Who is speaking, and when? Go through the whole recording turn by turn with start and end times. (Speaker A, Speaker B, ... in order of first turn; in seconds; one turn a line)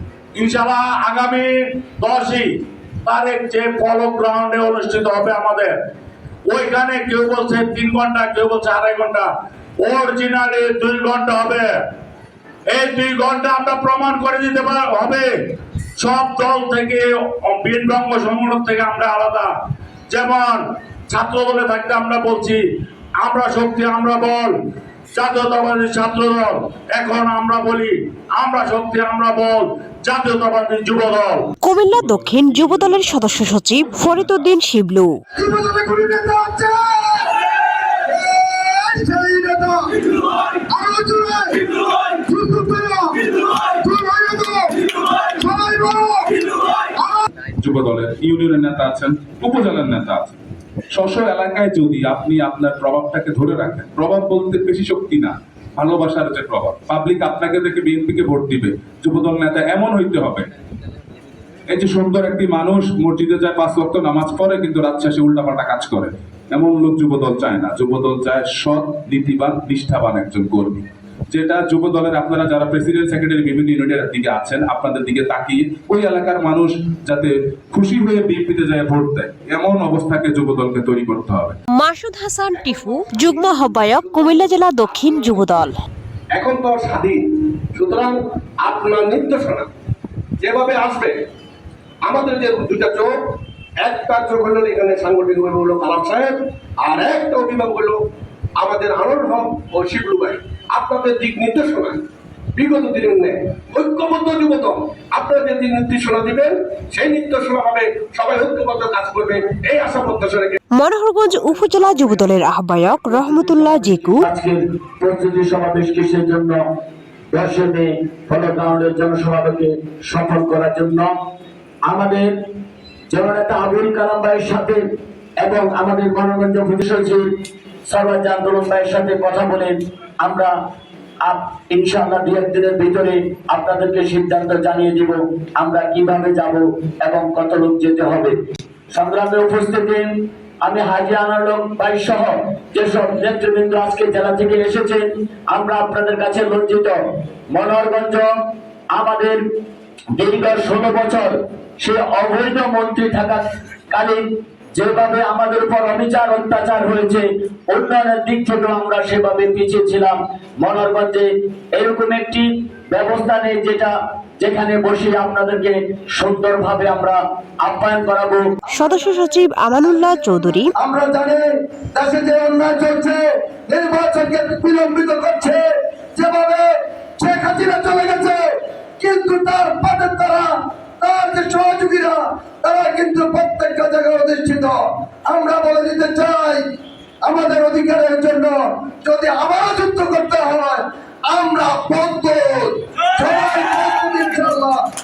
Speaker A: 0.4-1.5
Speaker A: 2.0-2.5
Speaker A: 3.0-5.7
Speaker A: 6.5-9.3
Speaker A: 9.8-11.7
Speaker A: 12.7-15.3
Speaker A: 16.0-19.5
Speaker A: 20.1-22.6
Speaker A: 23.2-24.5
Speaker A: 25.1-31.4
Speaker B: 31.6-35.1
Speaker C: 32.0-33.2
Speaker D: 35.4-37.4
Speaker D: 38.0-47.2
Speaker C: 47.6-50.4
Speaker C: 50.9-60.5
Speaker C: 61.7-81.6
Speaker B: 81.7-85.7
Speaker E: 82.5-85.5
Speaker E: 86.3-89.7
Speaker E: 90.4-91.2
Speaker E: 92.0-98.0
Speaker E: 98.5-110.6
Speaker B: 110.8-114.2
Speaker F: 114.2-116.6
Speaker F: 117.3-121.1
Speaker F: 121.9-122.3
Speaker F: 123.1-124.8
Speaker F: 125.4-127.2
Speaker F: 127.9-130.5
Speaker F: 131.2-138.3
Speaker F: 138.9-140.1
Speaker F: 140.6-147.0
Speaker F: 147.5-148.3
Speaker F: 148.9-149.4
Speaker F: 150.2-154.2
Speaker F: 154.8-168.4
Speaker B: 168.7-170.7
Speaker D: 170.8-171.4
Speaker D: 172.0-175.6
Speaker D: 176.2-176.6
Speaker D: 177.2-178.4
Speaker D: 179.0-180.4
Speaker D: 181.1-182.1
Speaker D: 182.7-184.7
Speaker D: 185.2-186.6
Speaker D: 187.2-188.5
Speaker D: 189.1-190.7
Speaker D: 191.3-192.6
Speaker E: 193.2-194.7